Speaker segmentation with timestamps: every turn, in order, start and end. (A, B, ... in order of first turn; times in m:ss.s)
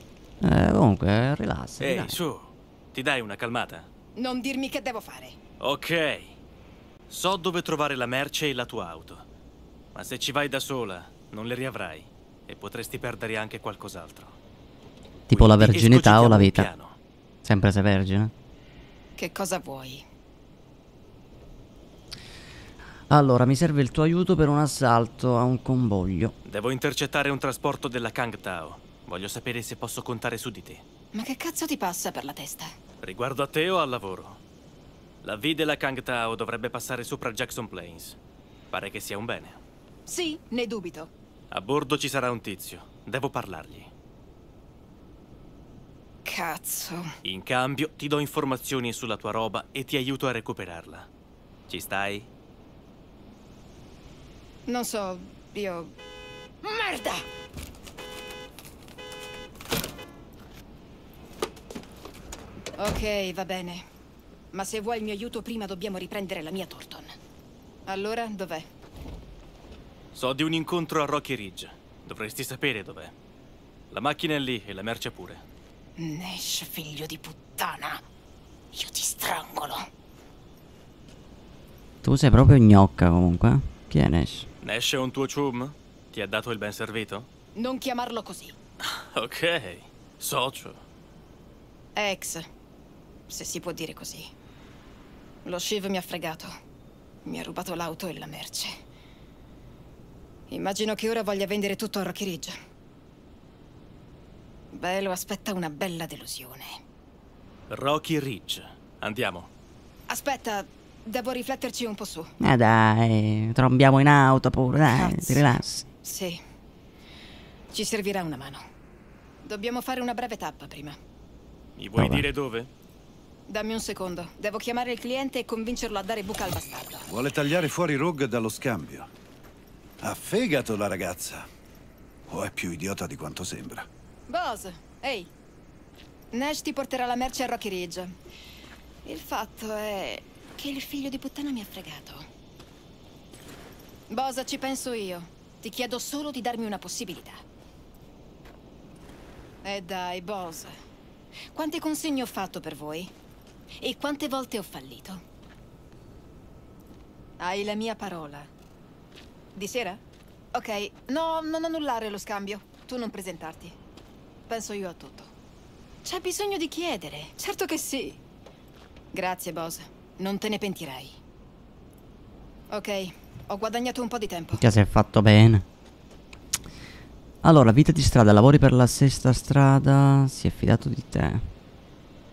0:00.4-0:02.2 A
0:01.8-0:03.9 B
0:04.2-0:05.4 C
0:05.6-0:06.4 B
0:07.1-0:09.2 B
0:09.9-0:14.4 B
0:15.3-0:16.7 A
0:15.3-0:17.0 B
0:17.4-0:18.3 A
0:19.2-0:20.0 C
0:23.1-0:26.3 A
0:26.4-0:30.8 B
0:31.1-0:32.7 C
0:33.0-0:34.4 B
0:35.2-0:38.2 B
0:38.7-0:39.6 B
0:40.1-0:41.1 C
0:41.5-0:43.9 B
0:46.2-0:47.1 C
0:47.2-0:51.1 B
0:51.7-0:52.3 B
0:54.7-0:55.9 C
0:56.6-0:57.2 C
1:02.8-1:03.8 C
1:04.5-1:07.1 C
1:07.9-1:08.6 C
1:10.1-1:13.1 B
1:13.9-1:15.4 B
1:16.0-1:18.0 C
1:18.7-1:19.9 C
1:22.0-1:24.5 A
1:24.6-1:27.3 B
1:27.6-1:28.6 C
1:28.8-1:30.8 B
1:32.0-1:32.5 C
1:33.3-1:34.3 C
1:35.4-1:36.5 C
1:37.2-1:38.8 C
1:40.5-1:42.6 C
1:44.7-1:46.8 C
1:47.7-1:49.5 B
1:50.1-1:52.3 C
1:52.4-1:55.8 A
1:54.9-1:56.4 C
1:57.7-1:58.6 C
1:59.4-2:01.0 C
2:01.8-2:02.7 B
2:02.0-2:02.3 A
2:03.5-2:07.0 C
2:07.1-2:09.1 D
2:10.0-2:11.4 D
2:12.3-2:13.9 D
2:14.3-2:15.3 C
2:16.3-2:18.1 C
2:19.0-2:22.2 C
2:24.1-2:27.4 C
2:29.6-2:30.7 C
2:31.5-2:33.1 C
2:33.8-2:35.2 C
2:37.4-2:38.5 C
2:39.5-2:40.0 C
2:40.5-2:43.7 C
2:44.5-2:45.3 C
2:46.0-2:48.2 C
2:49.1-2:51.2 C
2:52.7-2:54.6 C
2:54.6-2:55.6 A
2:57.4-3:01.5 A